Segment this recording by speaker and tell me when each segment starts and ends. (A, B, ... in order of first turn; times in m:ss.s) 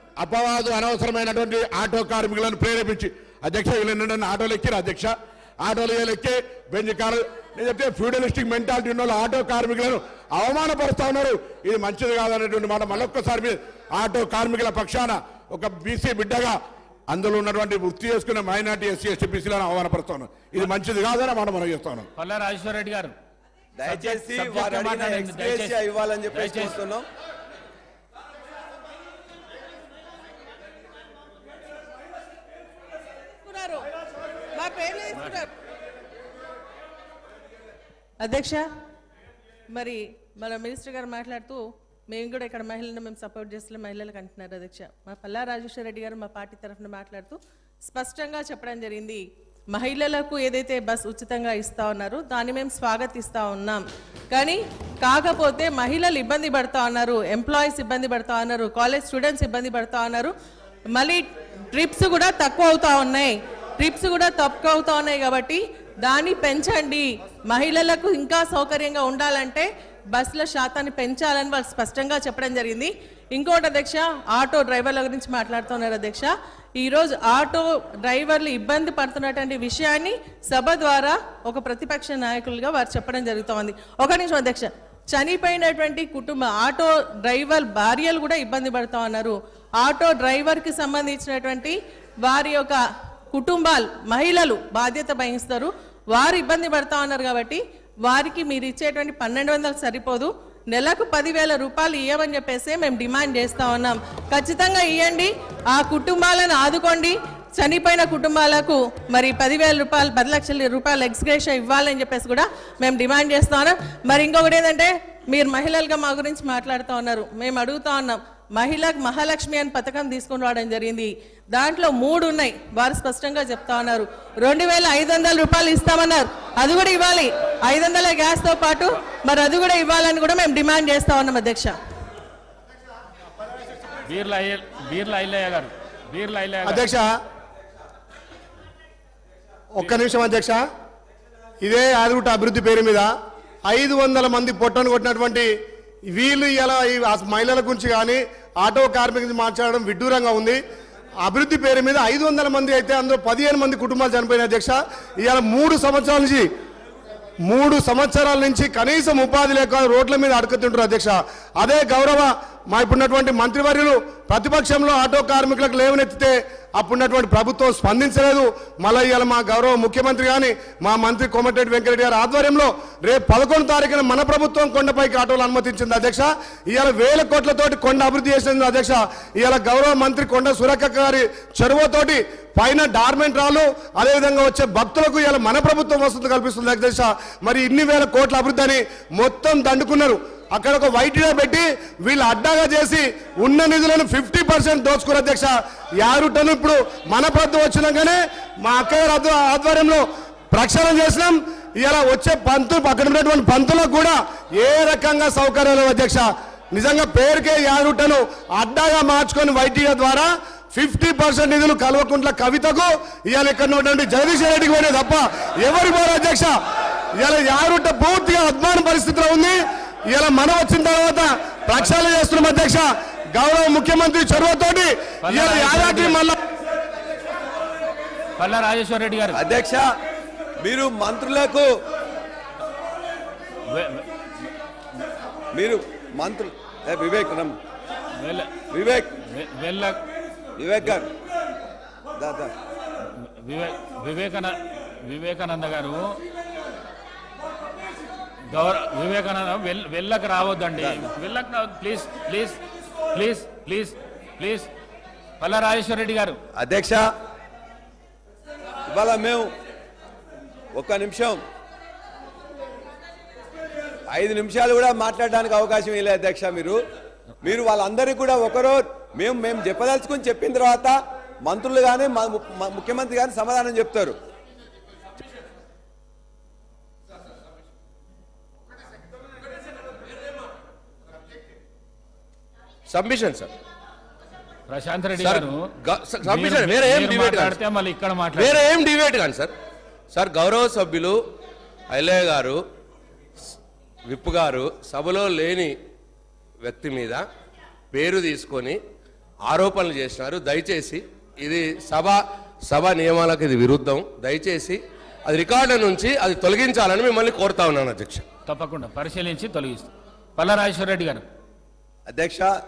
0:00.2-0:16.6 A
0:17.1-0:22.1 A
0:22.2-0:23.1 B
0:23.8-0:27.1 C
0:23.8-0:26.8 B
0:33.4-0:33.9 D
0:34.6-0:35.5 D
0:35.2-0:35.4 B
0:38.2-0:38.6 D
0:39.7-0:49.2 D
0:49.7-1:00.3 D
1:01.0-1:32.8 D
1:33.3-2:11.8 D
2:14.1-2:16.9 B
2:16.6-2:17.1 E
2:19.8-2:20.6 E
2:21.6-2:23.1 E
2:23.7-2:25.5 E
2:26.1-2:30.6 E
2:31.2-2:36.5 E
2:37.5-3:36.6 E
3:37.2-3:39.6 E
3:40.1-3:46.4 E
3:45.2-3:46.2 B
3:48.4-3:49.4 B
3:49.3-3:49.8 C
3:50.6-3:51.7 C
3:53.7-3:54.0 B
3:55.5-3:57.6 C
3:58.2-3:58.5 B
3:58.7-3:59.1 C
3:59.3-4:00.0 B
4:00.6-4:01.1 C
4:02.2-4:02.5 C
4:03.1-4:06.2 B
4:08.5-4:12.6 B
4:10.8-4:11.0 C
4:13.1-4:14.7 B
4:15.4-4:16.4 B
4:16.6-4:17.0 C
4:18.9-4:19.5 C
4:20.7-4:21.4 C
4:24.1-4:26.8 C
4:27.4-4:30.9 C
4:31.4-4:34.2 C
4:42.9-4:43.5 F
4:44.7-4:45.7 B
4:45.2-4:47.6 F
4:46.2-4:48.7 B
4:48.4-4:49.5 F
4:50.1-4:51.2 F
4:51.9-4:52.6 F
4:54.1-4:55.7 F
4:56.6-4:57.2 F
4:57.9-4:58.8 F
4:59.5-5:08.3 F
5:08.5-5:11.3 B
5:12.1-5:12.5 C